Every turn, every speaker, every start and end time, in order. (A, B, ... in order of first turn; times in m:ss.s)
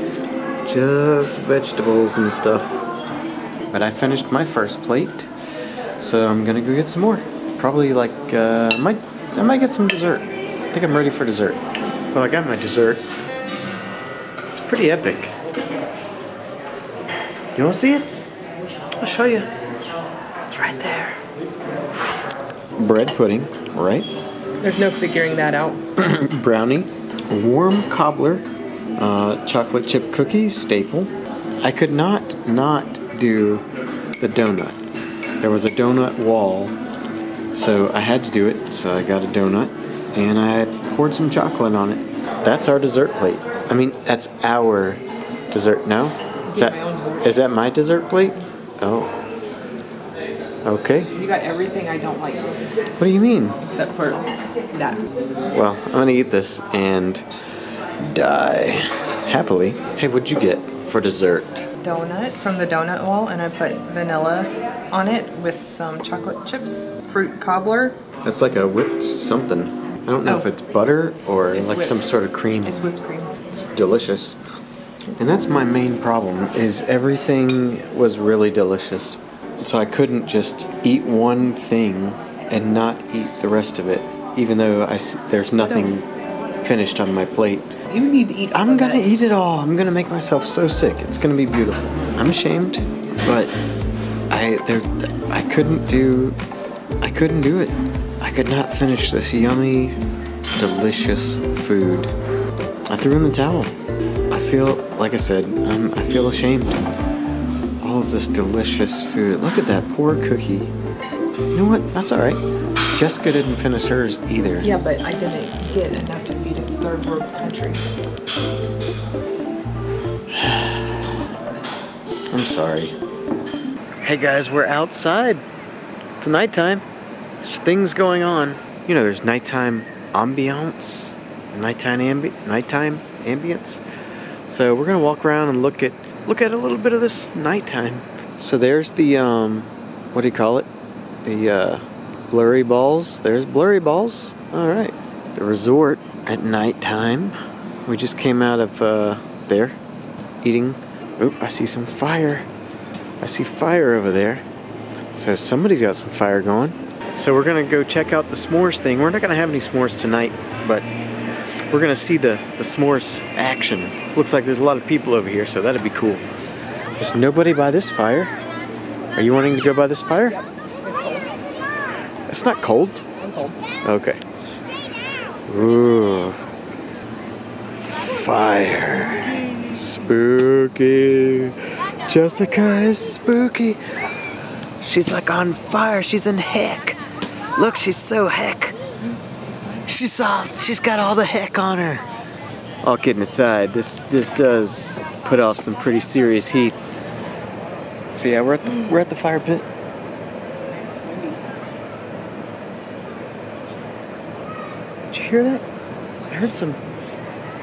0:00.6-0:02.8 A
0:03.7-0:05.3 A
0:06.0-0:11.6 A
0:12.1-0:13.0 A
0:14.5-0:15.3 A
0:17.6-0:18.1 A
0:19.0-0:19.5 A
0:20.5-0:21.2 A
0:22.8-0:24.1 A
0:24.6-0:25.8 B
0:26.0-0:28.5 A
0:29.0-0:31.1 A
0:31.6-0:33.7 A
0:34.2-0:34.8 A
0:35.4-0:36.8 A
0:37.5-0:49.2 A
0:46.5-0:47.4 B
0:50.6-0:51.1 A
0:51.2-0:52.5 B
0:53.0-0:53.6 A
0:53.6-0:55.0 B
0:55.5-0:57.3 A
0:58.0-1:01.7 A
1:01.8-1:08.0 B
1:08.2-1:12.8 A
1:11.5-1:12.1 B
1:12.6-1:13.4 B
1:13.5-1:14.4 A
1:15.1-1:15.6 B
1:15.2-1:26.1 A
1:26.6-1:27.7 A
1:27.9-1:29.1 B
1:28.5-1:33.5 A
1:34.3-1:36.4 A
1:37.0-1:40.0 A
1:40.6-1:42.1 A
1:42.9-1:43.7 A
1:44.3-1:46.9 A
1:47.8-1:50.7 A
1:51.5-1:52.4 A
1:52.9-1:54.8 A
1:54.6-1:57.8 B
2:00.3-2:01.3 A
2:02.3-2:03.0 A
2:04.0-2:05.4 A
2:06.2-2:06.8 A
2:07.4-2:13.8 A
2:14.5-2:20.7 A
2:21.2-2:29.8 A
2:30.4-2:32.5 A
2:33.2-2:34.4 A
2:35.1-2:40.9 A
2:41.7-2:46.2 A
2:47.0-2:48.3 A
2:49.2-2:50.4 A
2:52.3-2:53.0 A
2:53.8-2:54.2 A
2:55.5-2:56.5 A
2:57.7-3:03.8 A
3:04.8-3:07.0 A
3:07.5-3:08.8 A
3:09.8-3:12.1 A
3:12.8-3:16.8 A
3:18.2-3:19.7 A
3:20.8-3:21.4 B
3:25.1-3:25.6 A
3:26.3-3:26.8 A